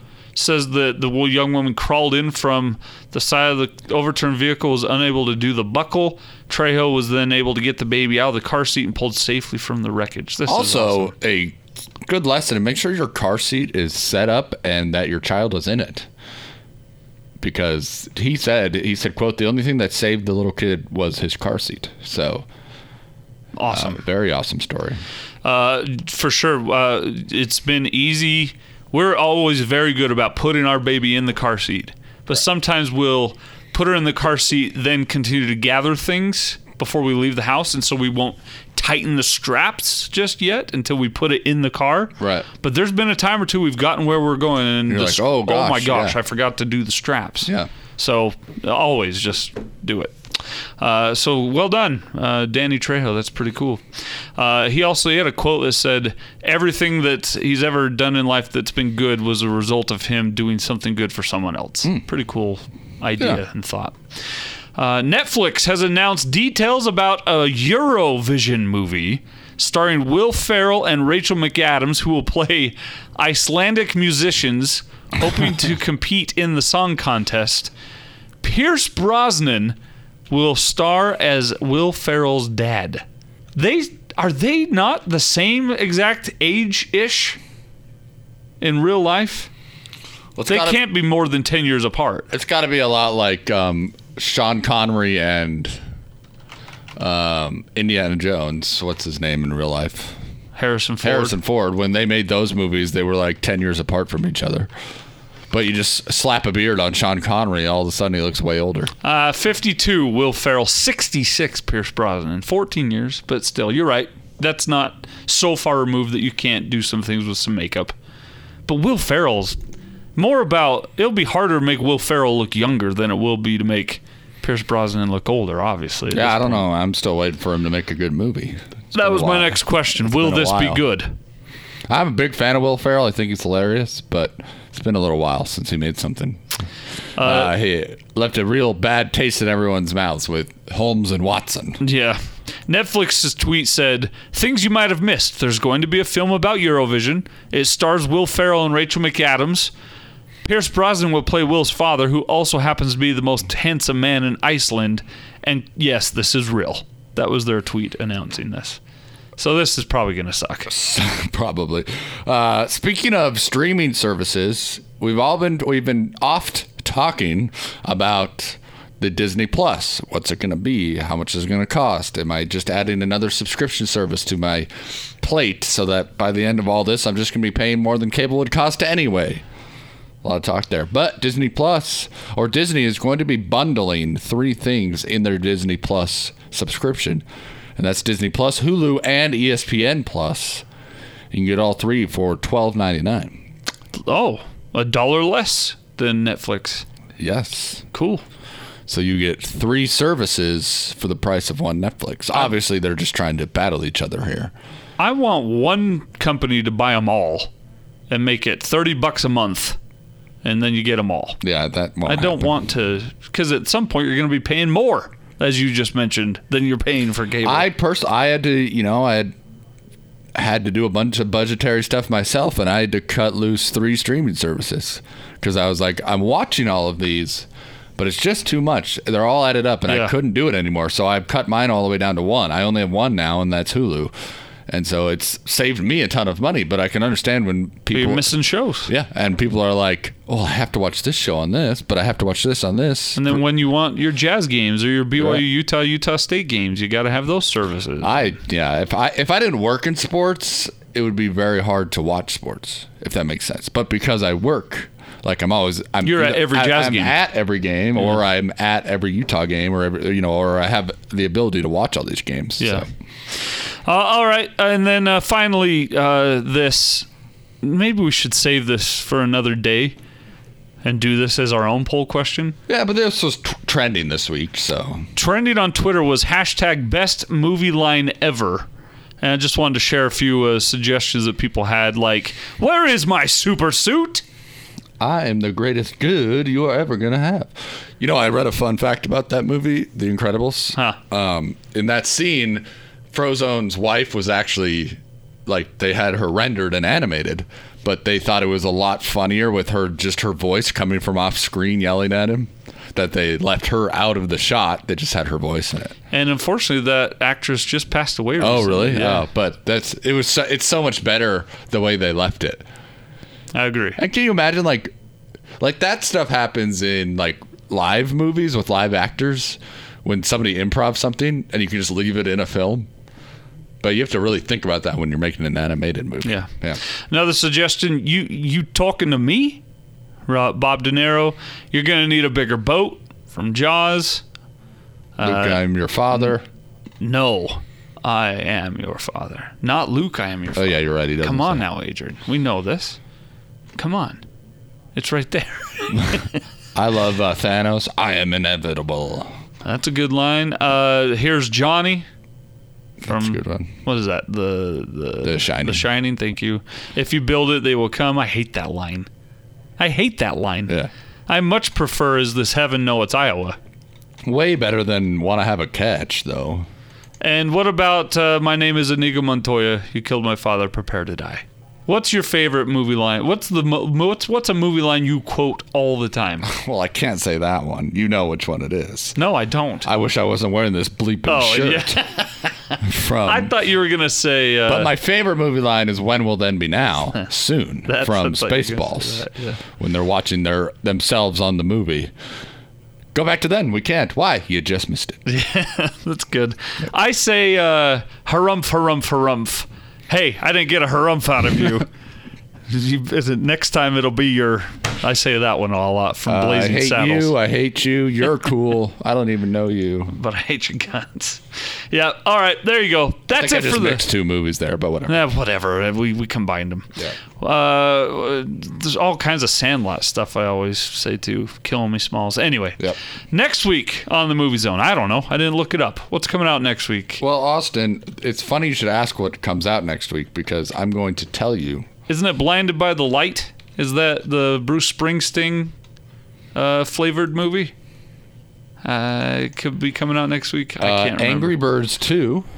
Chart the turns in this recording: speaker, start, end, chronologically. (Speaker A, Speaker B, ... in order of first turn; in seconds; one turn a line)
Speaker A: 0.3-11.1
Speaker B: 10.5-16.1
Speaker B: 17.4-22.4
Speaker A: 23.6-24.0
Speaker B: 23.7-25.0
Speaker A: 25.4-50.1
Speaker B: 42.2-42.5
Speaker B: 44.9-46.2
Speaker A: 50.8-53.8
Speaker A: 54.4-64.0
Speaker A: 64.7-77.7
Speaker A: 78.4-79.8
Speaker A: 80.3-83.0
Speaker A: 83.5-87.4
Speaker A: 88.6-89.5
Speaker B: 90.3-90.8
Speaker A: 90.4-92.3
Speaker B: 92.3-95.8
Speaker B: 97.0-100.2
Speaker A: 100.5-101.3
Speaker B: 101.0-104.7
Speaker B: 105.5-108.9
Speaker A: 109.0-117.9
Speaker A: 118.7-119.6
Speaker A: 120.2-126.6
Speaker B: 126.1-130.8
Speaker A: 128.9-131.1
Speaker B: 131.9-136.4
Speaker A: 137.2-137.5
Speaker B: 137.2-141.8
Speaker A: 141.8-149.7
Speaker A: 150.4-158.8
Speaker A: 159.4-160.7
Speaker B: 160.7-174.7
Speaker B: 175.2-179.4
Speaker B: 180.2-187.2
Speaker B: 187.8-190.6
Speaker B: 191.3-193.4
Speaker A: 194.0-196.8
Speaker B: 197.2-197.8
Speaker A: 197.9-198.2
Speaker B: 198.9-204.5
Speaker A: 205.0-207.5
Speaker A: 208.1-209.8
Speaker A: 210.4-211.4
Speaker B: 211.4-212.5
Speaker A: 212.1-217.7
Speaker B: 217.4-219.3
Speaker B: 220.3-234.1
Speaker A: 229.9-230.1
Speaker B: 234.7-238.3
Speaker A: 237.9-238.9
Speaker B: 238.9-243.4
Speaker A: 243.1-248.3
Speaker B: 245.2-245.4
Speaker B: 248.0-262.9
Speaker A: 256.0-257.2
Speaker A: 262.6-262.8
Speaker A: 263.8-267.1
Speaker A: 267.6-269.9
Speaker A: 270.8-272.6
Speaker B: 272.7-275.1
Speaker A: 275.1-278.7
Speaker A: 279.2-284.2
Speaker B: 285.0-305.9
Speaker A: 306.1-309.3
Speaker B: 308.4-312.6
Speaker A: 313.5-314.0
Speaker B: 314.0-314.9
Speaker B: 315.6-322.9
Speaker B: 323.8-326.8
Speaker A: 326.2-326.5
Speaker A: 327.0-329.6
Speaker A: 330.3-334.2
Speaker A: 335.1-335.6
Speaker B: 335.2-336.4
Speaker A: 337.0-343.0
Speaker B: 340.5-341.6
Speaker A: 343.8-344.2
Speaker A: 344.9-346.4
Speaker B: 346.7-349.3
Speaker A: 349.6-352.1
Speaker B: 353.0-353.7
Speaker A: 353.0-359.1
Speaker B: 355.2-355.8
Speaker A: 359.8-360.8
Speaker A: 361.3-363.6
Speaker B: 364.2-366.6
Speaker A: 367.2-376.5
Speaker B: 376.4-379.2
Speaker A: 379.1-379.9
Speaker B: 379.8-382.0
Speaker A: 381.3-384.9
Speaker B: 382.8-383.5
Speaker B: 384.7-392.1
Speaker A: 387.9-389.6
Speaker B: 393.1-395.2
Speaker A: 395.2-401.9
Speaker A: 402.7-407.3
Speaker B: 406.2-410.1
Speaker A: 410.1-414.0
Speaker B: 413.3-415.2
Speaker A: 415.1-427.2
Speaker B: 427.2-431.9
Speaker A: 432.1-435.7
Speaker A: 436.5-437.7
Speaker A: 438.8-441.6
Speaker B: 440.8-442.5